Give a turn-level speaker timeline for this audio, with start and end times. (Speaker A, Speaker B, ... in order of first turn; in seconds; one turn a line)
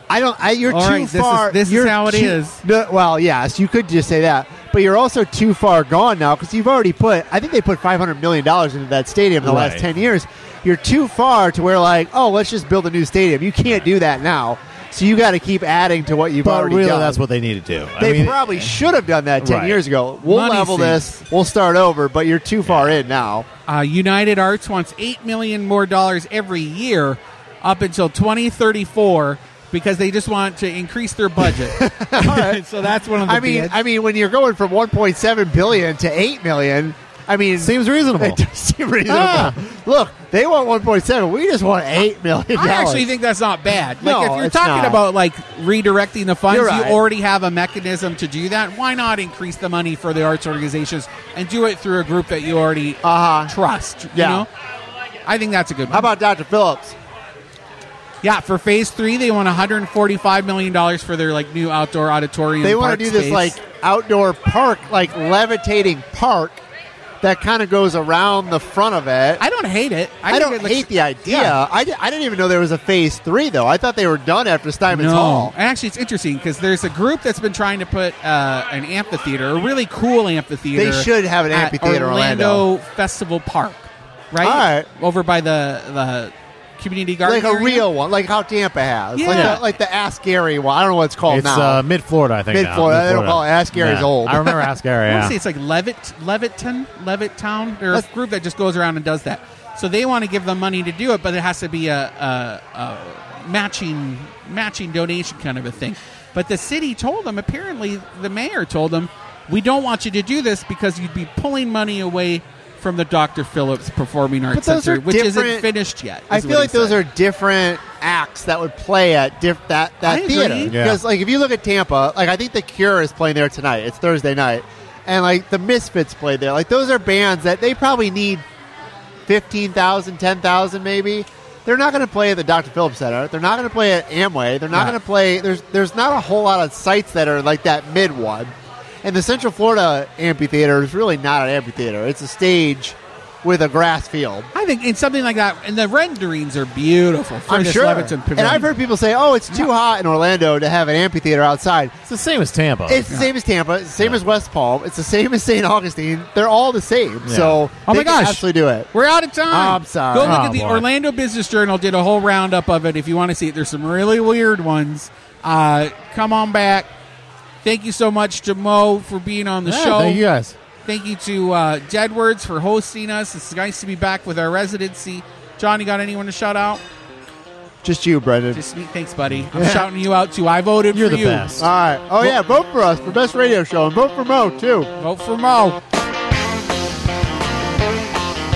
Speaker A: 0.1-17.2
Speaker B: 0.7-2.6
Speaker C: 9.4-9.8
Speaker C: 16.4-18.7
Speaker A: 18.0-23.5
Speaker C: 19.4-19.8
Speaker B: 20.2-21.2
Speaker B: 23.7-33.8
Speaker A: 31.6-32.6
Speaker A: 33.2-43.1
Speaker C: 37.6-38.4
Speaker C: 39.1-39.5
Speaker B: 42.6-54.5
Speaker A: 44.0-45.0
Speaker A: 46.5-47.0
Speaker A: 53.0-53.5
Speaker A: 54.1-54.5
Speaker B: 55.2-56.1
Speaker A: 55.9-57.0
Speaker B: 58.2-63.6
Speaker A: 62.6-66.6
Speaker A: 67.2-69.4
Speaker B: 69.4-71.6
Speaker A: 70.3-75.5
Speaker B: 74.9-87.8
Speaker A: 80.8-82.7
Speaker A: 84.4-84.9
Speaker A: 87.2-91.8
Speaker B: 89.2-89.6
Speaker C: 89.3-89.6
Speaker C: 91.3-95.4
Speaker A: 92.5-94.7
Speaker B: 95.1-117.0
Speaker A: 114.5-115.7
Speaker A: 116.3-128.4
Speaker B: 120.0-120.7
Speaker C: 120.7-121.0
Speaker A: 129.3-138.5
Speaker A: 139.0-144.5
Speaker B: 144.5-148.7
Speaker A: 147.5-151.9
Speaker C: 152.1-153.1
Speaker A: 152.9-158.9
Speaker C: 157.2-157.6
Speaker B: 157.8-166.9
Speaker A: 159.5-160.4
Speaker C: 160.2-160.9
Speaker B: 167.6-170.2
Speaker C: 169.7-170.6
Speaker B: 170.8-176.8
Speaker A: 177.8-178.6
Speaker B: 178.5-181.5
Speaker A: 179.5-179.8
Speaker C: 180.9-182.4
Speaker A: 181.6-184.9
Speaker B: 185.0-185.8